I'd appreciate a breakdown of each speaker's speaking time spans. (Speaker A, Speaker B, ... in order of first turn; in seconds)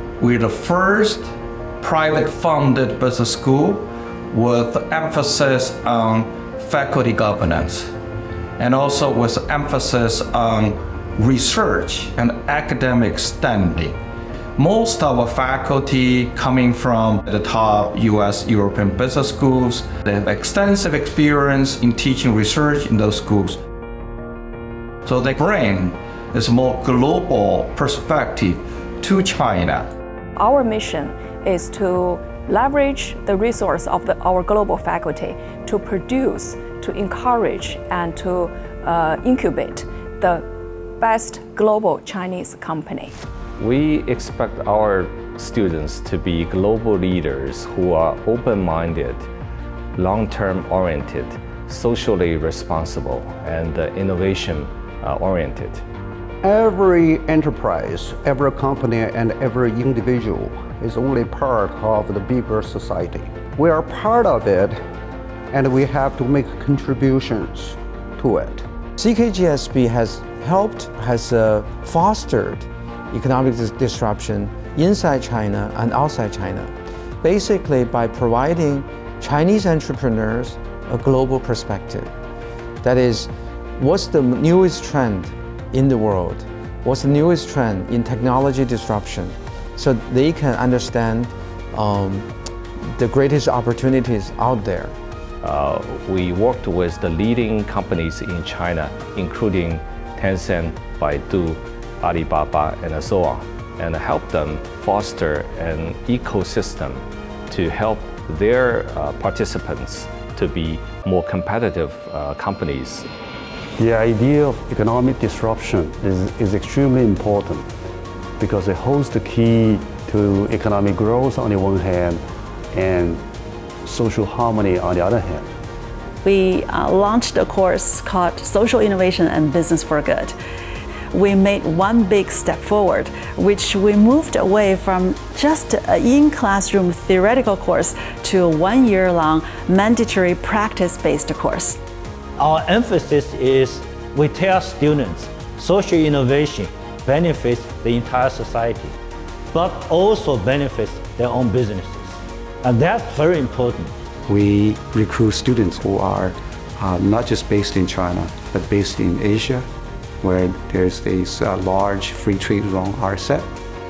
Speaker A: 0.2-7.9, 8.6-14.0, 14.6-23.6, 25.0-29.9
Speaker B: 30.4-40.5, 41.0-43.2
Speaker C: 43.6-49.3, 50.0-55.8, 95.4-113.1
Speaker D: 56.4-64.8, 65.5-68.7
Speaker E: 69.0-82.1, 82.8-92.3, 93.0-95.0
Speaker F: 113.8-117.7, 118.4-123.2, 123.8-125.5
Speaker G: 126.2-130.4, 131.1-141.8
Speaker H: 142.4-149.0, 149.5-153.9
Speaker I: 154.3-159.7, 160.2-163.5